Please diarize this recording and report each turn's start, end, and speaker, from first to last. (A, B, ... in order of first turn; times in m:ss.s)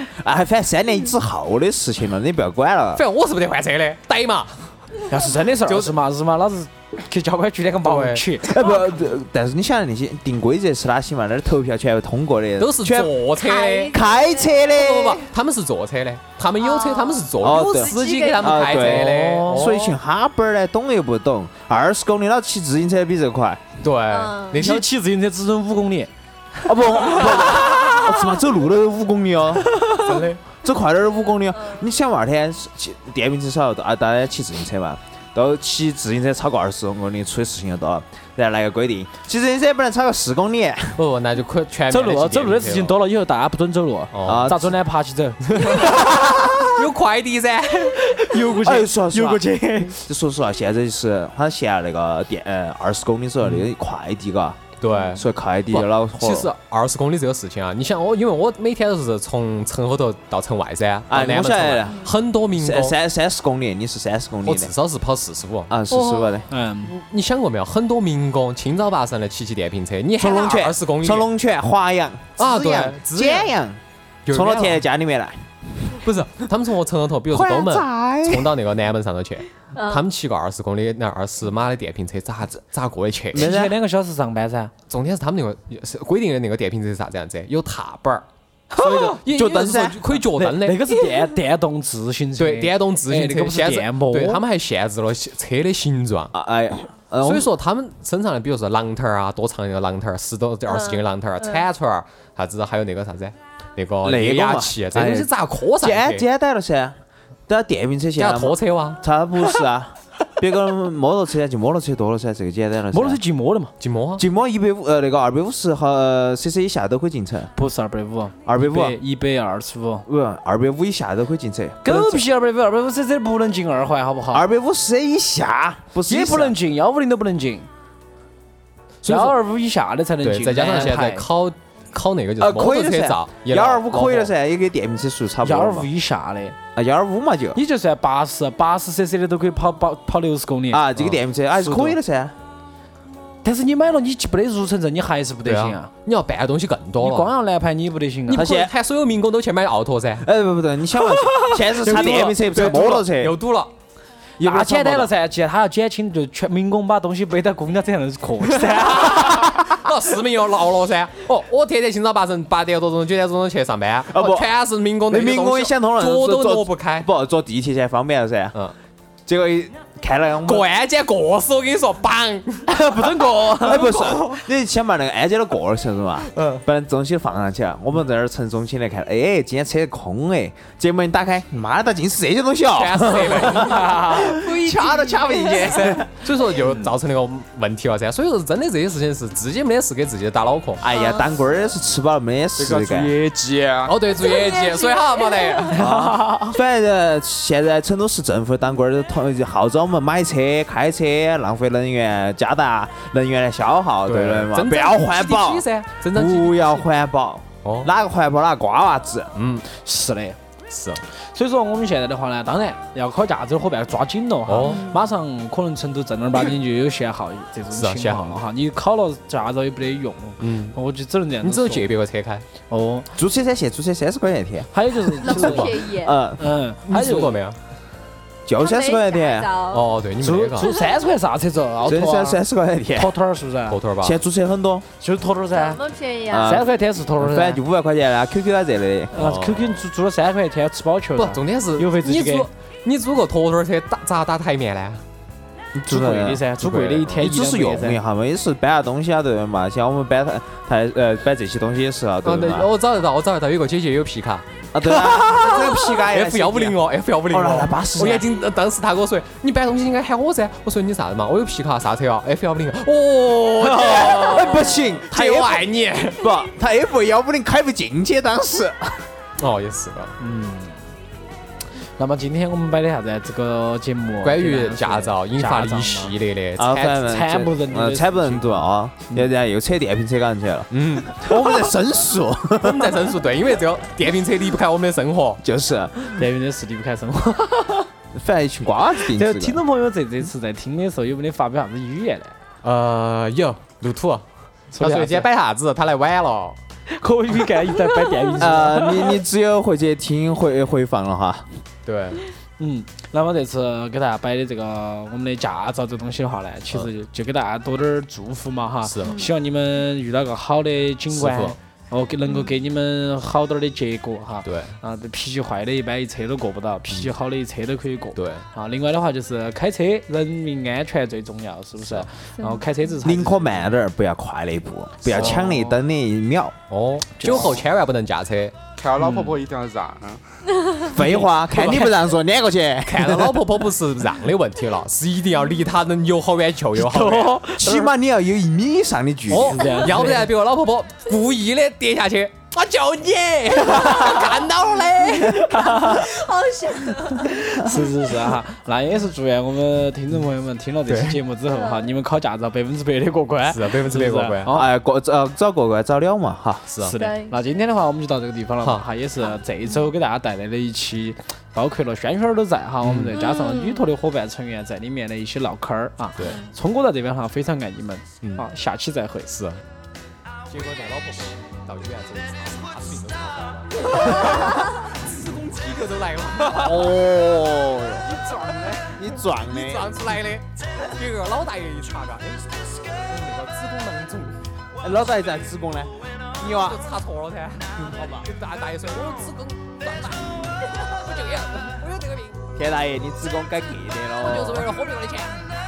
0:00.2-0:03.0 A
0:03.0-0:04.9 B
0:05.1-0:08.6 C
0:05.7-0:05.9 B
0:07.8-0:08.2 B
0:08.4-0:13.2 A
0:12.6-0:13.9 B
0:13.4-0:14.6 D
0:13.9-0:15.3 A
0:14.7-0:20.0 B
0:16.6-0:19.1 D
0:17.4-0:23.7 A
0:19.0-0:19.8 C
0:23.8-0:24.9 B
0:24.1-0:24.6 D
0:24.6-0:26.1 C
0:26.7-0:29.8 A
0:26.8-0:28.0 C
0:29.8-0:30.2 C
0:30.0-0:30.4 B
0:30.5-0:41.0 A
0:41.0-0:43.0 B
0:41.9-0:46.1 C
0:44.1-0:44.6 B
0:44.2-0:44.7 A
0:45.5-0:48.3 B
0:47.8-0:50.0 C
0:48.6-0:56.5 A
0:54.8-1:03.0 B
0:54.9-0:55.2 D
1:01.1-1:04.7 A
1:04.4-1:05.7 B
1:05.7-1:06.5 A
1:05.9-1:06.4 D
1:06.5-1:07.0 C
1:06.8-1:11.3 B
1:10.2-1:16.0 A
1:12.4-1:13.5 B
1:14.3-1:14.8 B
1:15.9-1:23.5 B
1:17.3-1:18.6 A
1:19.8-1:20.0 D
1:23.3-1:23.8 A
1:23.3-1:24.7 C
1:24.9-1:28.2 B
1:28.8-1:29.2 C
1:28.8-1:30.8 B
1:28.9-1:30.1 A
1:30.3-1:34.4 C
1:32.4-1:36.3 B
1:36.3-1:37.5 A
1:37.2-1:46.3 B
1:40.7-1:41.6 D
1:44.0-1:53.2 A
1:48.2-1:49.0 B
1:52.9-1:53.7 C
1:53.8-1:54.2 B
1:54.2-1:57.5 A
1:57.6-2:00.1 C
1:58.5-1:59.0 A
2:00.1-2:02.2 A
2:01.8-2:04.5 C
2:04.3-2:06.6 A
2:06.1-2:07.7 C
2:09.0-2:09.4 B
2:09.0-2:11.3 C
2:10.2-2:14.3 B
2:12.4-2:15.9 A
2:15.4-2:16.6 C
2:16.8-2:17.6 A
2:17.6-2:20.9 C
2:20.7-2:22.4 A
2:21.6-2:22.0 C
2:23.4-2:25.9 C
2:25.4-2:27.3 B
2:27.0-2:28.5 C
2:28.3-2:30.3 B
2:28.3-2:28.7 A
2:30.2-2:33.4 A
2:31.3-2:32.4 C
2:31.8-2:33.7 B
2:34.4-2:35.1 A
2:34.4-2:39.6 C
2:38.9-2:47.1 B
2:44.1-2:44.5 A
2:45.1-2:48.6 A
2:49.3-2:50.7 A
2:50.4-2:52.7 B
2:52.7-2:54.4 C
2:53.4-3:06.1 A
3:02.8-3:04.2 B
3:03.7-3:04.4 C
3:04.2-3:05.9 D
3:05.4-3:10.8 B
3:06.6-3:06.9 C
3:10.8-3:13.2 A
3:10.9-3:11.4 D
3:12.6-3:14.0 E
3:13.9-3:15.8 B
3:14.1-3:15.8 D
3:15.7-3:16.5 C
3:15.8-3:29.3 A
3:24.1-3:26.9 B
3:27.6-3:27.9 B
3:29.4-3:29.6 B
3:29.7-3:30.4 C
3:30.7-3:31.0 B
3:31.2-3:41.9 C
3:34.5-3:34.9 B
3:34.7-3:35.0 D
3:37.7-3:38.4 B
3:40.4-3:40.8 B
3:41.4-3:42.4 B
3:42.7-3:43.1 C
3:43.2-3:46.6 A
3:44.7-3:45.8 C
3:45.2-3:46.2 D
3:45.3-3:45.8 B
3:46.4-3:47.4 C
3:46.9-3:47.6 B
3:48.5-3:49.5 A
3:48.6-3:49.9 D
3:49.7-3:50.7 B
3:50.2-3:52.4 C
3:50.7-3:50.9 D
3:51.8-3:53.1 A
3:53.0-3:53.8 C
3:53.7-3:54.2 B
3:54.0-3:54.8 A
3:55.0-3:55.8 C
3:55.5-3:56.6 D
3:56.3-3:56.7 A
3:56.4-3:57.6 C
3:57.2-3:59.1 A
3:59.1-4:02.5 C
3:59.2-3:59.8 B
4:01.2-4:05.0 B
4:05.8-4:12.7 A
4:05.9-4:08.0 C
4:06.6-4:07.2 B
4:12.2-4:26.3 B
4:14.7-4:18.3 A
4:23.7-4:29.1 A
4:23.8-4:24.2 C
4:29.4-4:30.2 B
4:30.2-4:30.8 C
4:32.0-4:36.1 C
4:34.2-4:37.2 B
4:36.6-4:43.0 A
4:37.0-4:39.3 C
4:40.7-4:41.3 B
4:42.6-4:45.4 B
4:45.4-4:46.2 A
4:46.0-4:47.9 C
4:48.1-4:49.6 A
4:49.1-4:52.3 C
4:52.6-4:56.6 B
4:54.7-4:55.3 C
4:56.9-4:59.2 C
4:58.4-5:01.5 A
5:01.8-5:02.2 B
5:02.6-5:23.7 C
5:08.8-5:09.3 B
5:11.1-5:11.6 B
5:14.4-5:14.7 B
5:18.2-5:18.5 B
5:21.8-5:22.1 B
5:22.4-5:22.9 D
5:23.0-5:26.6 A
5:25.1-5:25.5 B
5:25.1-5:25.8 C
5:26.7-5:28.6 B
5:27.2-5:27.6 C
5:28.8-5:30.2 E
5:29.0-5:29.4 C
5:30.8-5:33.5 A
5:30.9-5:31.8 C
5:31.6-5:31.9 B
5:32.9-5:37.5 B
5:36.8-5:37.9 C
5:37.5-5:39.8 A
5:39.3-5:40.3 C
5:39.3-5:45.8 B
5:45.0-5:47.6 D
5:45.5-5:46.0 C
5:47.2-5:54.7 C
5:50.9-5:51.2 B
5:51.5-5:51.9 D
5:53.5-5:54.6 B
5:54.5-5:56.6 A
5:56.7-5:57.0 B
5:56.8-6:09.3 C
5:57.0-5:57.4 D
5:59.2-5:59.8 D
6:02.8-6:03.2 B
6:03.2-6:03.9 D
6:06.2-6:06.5 D
6:09.3-6:09.6 B
6:10.5-6:17.1 B
6:16.5-6:18.2 A
6:18.1-6:24.4 B
6:18.7-6:20.0 A
6:24.8-6:26.8 A
6:26.4-6:32.4 B
6:32.6-6:34.7 A
6:34.2-6:35.5 B